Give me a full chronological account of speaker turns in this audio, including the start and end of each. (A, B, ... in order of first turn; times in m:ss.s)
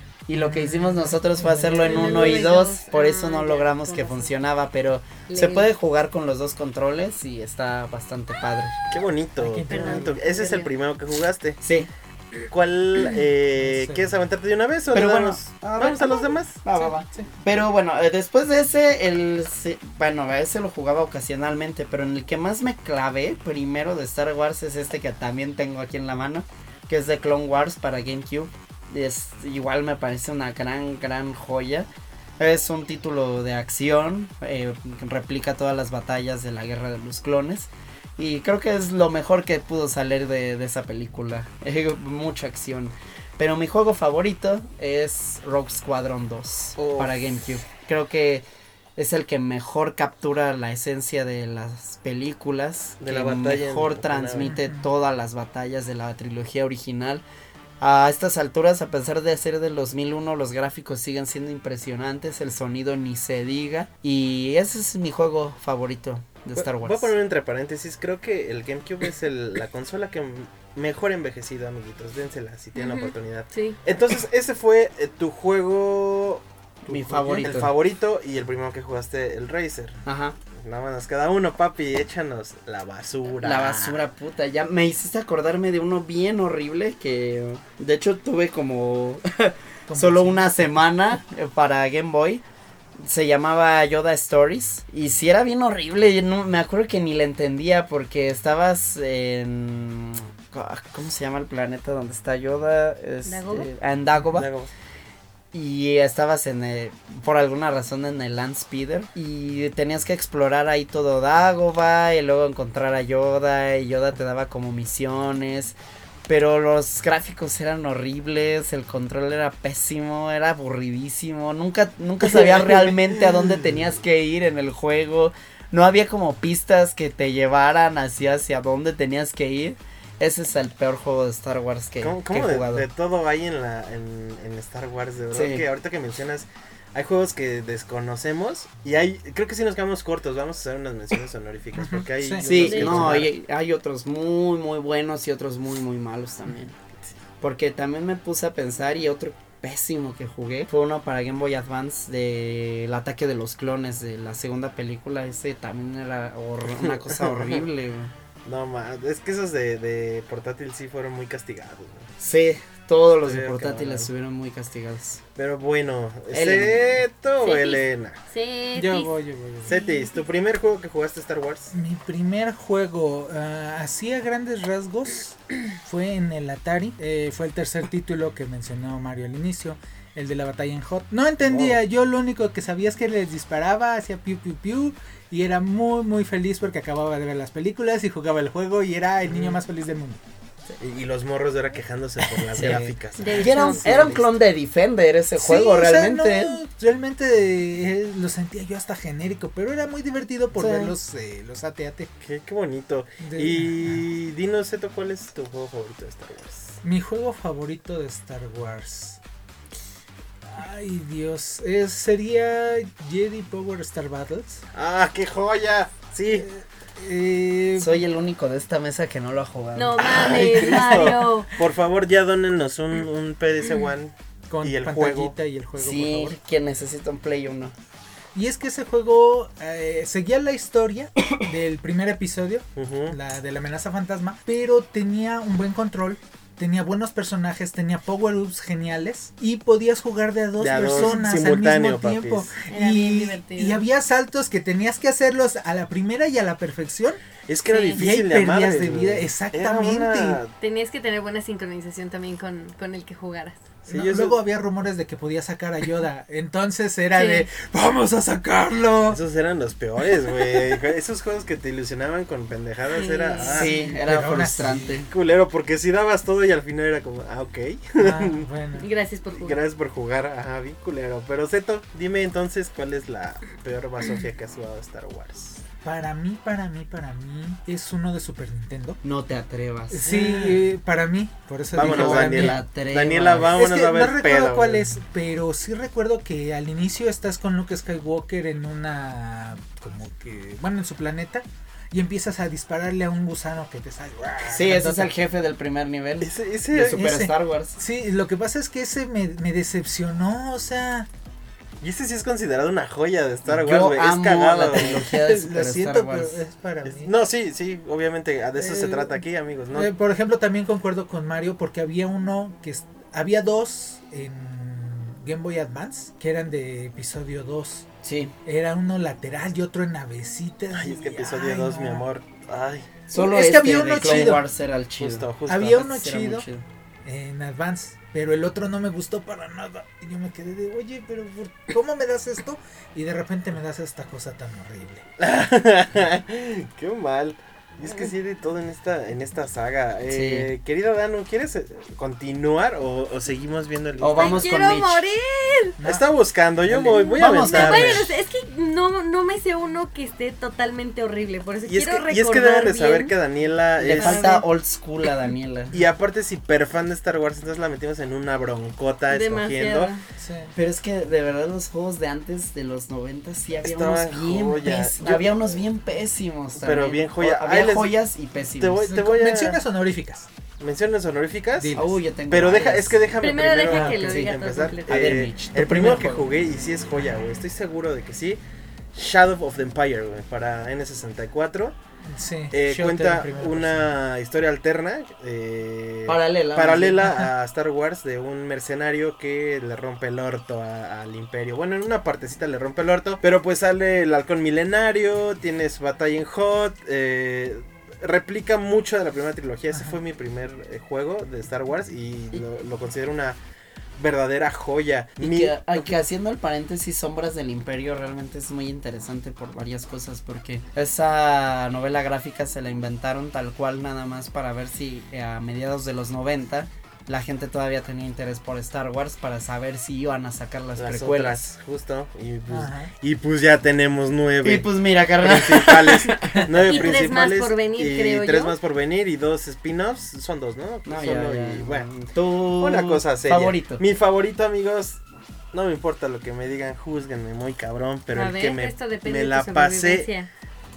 0:00.3-0:08.8 A
0:00.3-0:02.6 B
0:01.8-0:04.3 C
0:05.3-0:05.7 C
0:08.9-0:11.6 D
0:09.4-0:10.2 B
0:09.7-0:10.7 C
0:11.6-0:11.9 A
0:12.5-0:16.6 D
0:13.6-0:14.1 B
0:14.9-0:31.9 A
0:16.7-0:17.3 B
0:32.4-0:48.4 A
0:46.8-0:47.2 D
0:49.0-0:57.2 A
0:53.0-0:54.6 D
0:54.4-0:54.9 B
0:57.8-1:07.1 A
1:06.5-1:20.0 D
1:12.8-1:13.8 C
1:16.9-1:17.8 A
1:16.9-1:17.5 B
1:20.0-1:20.4 A
1:20.6-1:24.1 D
1:23.4-1:32.4 A
1:29.9-1:30.7 B
1:33.0-1:44.5 A
1:43.2-1:43.7 C
1:44.3-1:44.7 D
1:45.5-1:55.8 A
1:56.3-2:12.9 A
2:12.0-2:23.3 D
2:15.3-2:15.7 A
2:21.8-2:23.1 B
2:22.4-2:26.8 A
2:22.6-2:23.1 C
2:27.4-2:38.1 A
2:36.8-2:37.6 D
2:38.4-2:42.1 D
2:42.2-2:45.2 A
2:43.2-2:44.1 D
2:45.4-2:48.2 D
2:46.3-2:47.0 A
2:47.4-2:49.1 C
2:48.8-2:49.8 B
2:49.6-2:50.2 C
2:49.7-2:51.7 D
2:51.7-3:10.2 B
3:01.4-3:01.8 D
3:09.3-3:09.6 D
3:10.8-3:14.3 D
3:12.2-3:12.8 A
3:12.6-3:12.9 B
3:13.2-3:13.8 C
3:13.4-3:16.6 A
3:15.4-3:22.1 B
3:20.5-3:20.9 A
3:22.2-3:26.8 D
3:23.2-3:24.0 B
3:26.8-3:29.2 B
3:30.5-3:34.6 B
3:34.7-3:36.5 D
3:36.3-3:38.1 B
3:37.8-3:40.7 A
3:39.8-3:41.5 C
3:40.0-3:45.4 D
3:44.5-3:46.4 B
3:45.8-3:47.7 A
3:48.4-4:07.2 B
3:52.8-3:53.2 D
4:00.6-4:02.5 D
4:01.0-4:01.2 C
4:02.7-4:03.8 C
4:07.5-4:10.5 D
4:07.7-4:08.0 C
4:07.9-4:10.4 B
4:10.6-4:13.6 C
4:13.9-4:14.4 D
4:13.9-4:19.2 B
4:17.2-4:17.5 C
4:19.1-4:23.8 D
4:22.9-4:23.7 C
4:23.5-4:25.0 B
4:23.5-4:25.1 A
4:25.1-4:28.5 D
4:28.0-4:28.9 B
4:28.8-4:29.6 C
4:29.4-4:35.6 D
4:35.8-4:39.0 B
4:39.0-4:40.1 A
4:39.9-4:42.6 B
4:40.0-4:40.6 D
4:41.7-4:44.8 D
4:41.8-4:43.6 A
4:43.4-4:55.1 B
4:54.4-4:57.8 A
4:56.2-4:57.1 D
4:56.9-5:01.1 B
5:01.8-5:05.1 D
5:03.5-5:06.4 A
5:04.9-5:07.1 B
5:06.8-5:09.9 D
5:08.6-5:09.2 B
5:09.7-5:17.9 B
5:18.0-5:18.3 A
5:18.4-5:22.0 B
5:20.7-5:23.0 D
5:23.1-5:26.7 A
5:23.1-5:24.4 B
5:24.0-5:24.4 D
5:25.0-5:26.0 D
5:25.5-5:26.5 B
5:27.0-5:35.0 B
5:35.2-5:44.5 D
5:40.1-5:40.5 A
5:44.0-5:45.0 A
5:44.2-5:45.8 C
5:45.8-5:46.0 B
5:45.8-5:48.1 D
5:46.7-5:48.1 A
5:47.2-5:53.1 C
5:51.7-5:54.4 D
5:53.8-5:55.7 A
5:53.9-5:54.4 C
5:55.7-5:59.9 D
5:59.1-6:00.0 C
6:00.2-6:00.5 B
6:00.6-6:08.9 A
6:03.6-6:05.6 D
6:06.6-6:08.0 D
6:08.6-6:09.6 D
6:08.8-6:10.3 B
6:10.6-6:18.4 D
6:11.6-6:11.9 B
6:11.8-6:13.0 A
6:13.2-6:14.9 C
6:13.7-6:14.0 B
6:14.0-6:16.3 A
6:18.9-6:21.8 D
6:22.1-6:23.9 B
6:22.5-6:43.4 D
6:26.1-6:27.2 A
6:39.7-6:40.0 B
6:44.0-6:46.0 D
6:45.2-7:01.5 A
7:00.8-7:12.0 D
7:02.5-7:02.9 B
7:04.4-7:06.9 A
7:06.7-7:08.6 C
7:10.8-7:13.8 A
7:12.6-7:15.0 D
7:15.5-7:20.1 D
7:18.1-7:20.3 C